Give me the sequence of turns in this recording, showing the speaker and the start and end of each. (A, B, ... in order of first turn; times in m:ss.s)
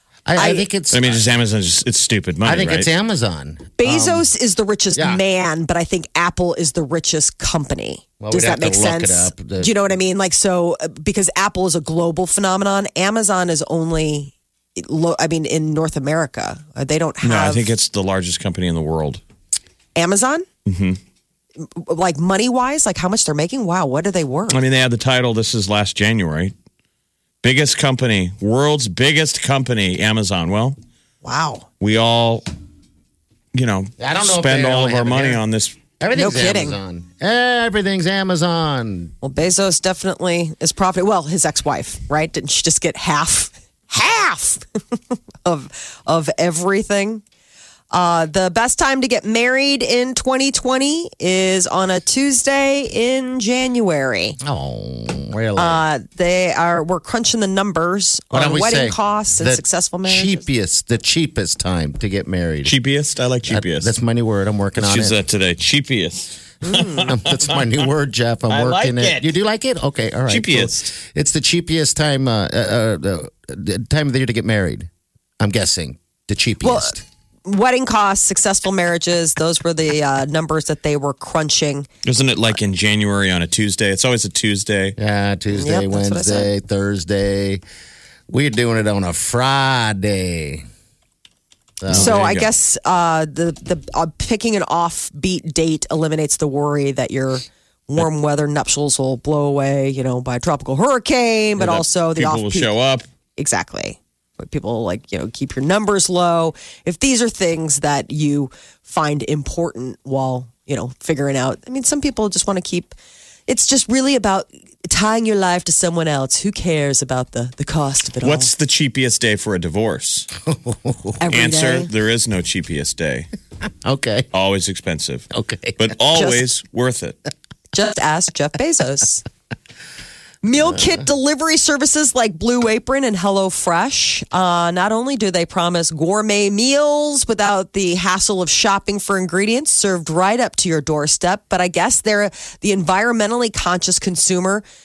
0:00.2-0:01.2 A
0:00.4-0:00.6 B
0:00.9-0:02.9 C
0:02.4-0:04.2 A
0:03.8-0:17.7 B
0:05.0-0:05.2 A
0:08.2-0:09.7 A
0:17.2-0:19.2 C
0:20.0-0:20.4 B
0:20.6-0:21.0 C
0:21.6-0:24.6 B
0:24.5-0:26.5 C
0:27.4-0:30.8 C
0:31.2-0:31.6 B
0:31.8-0:32.4 C
0:33.5-0:35.8 C
0:34.0-0:35.4 A
0:36.0-0:39.1 A
0:36.1-0:36.8 B
0:39.2-0:44.6 B
0:45.4-0:47.2 B
0:47.9-0:54.4 B
0:54.4-0:55.8 A
0:55.6-1:00.4 B
0:58.3-1:02.7 A
1:02.6-1:03.9 C
1:03.4-1:05.2 A
1:04.8-1:07.6 C
1:06.6-1:07.1 B
1:07.0-1:14.9 A
1:08.5-1:09.3 C
1:10.3-1:10.9 C
1:15.4-1:17.0 A
1:16.6-1:21.9 B
1:22.0-1:25.0 C
1:25.0-1:27.6 A
1:25.5-1:26.5 B
1:28.3-1:30.6 A
1:31.8-1:32.2 A
1:31.9-1:32.5 C
1:31.9-1:42.7 B
1:41.6-1:43.0 C
1:43.4-1:53.0 B
1:53.5-1:58.5 B
1:58.2-2:00.3 C
2:00.4-2:01.2 A
2:01.2-2:01.9 B
2:01.3-2:03.3 C
2:03.8-2:04.3 A
2:04.3-2:07.2 C
2:05.3-2:05.9 A
2:06.1-2:06.4 B
2:07.7-2:09.2 B
2:10.4-2:24.6 B
2:10.6-2:11.0 A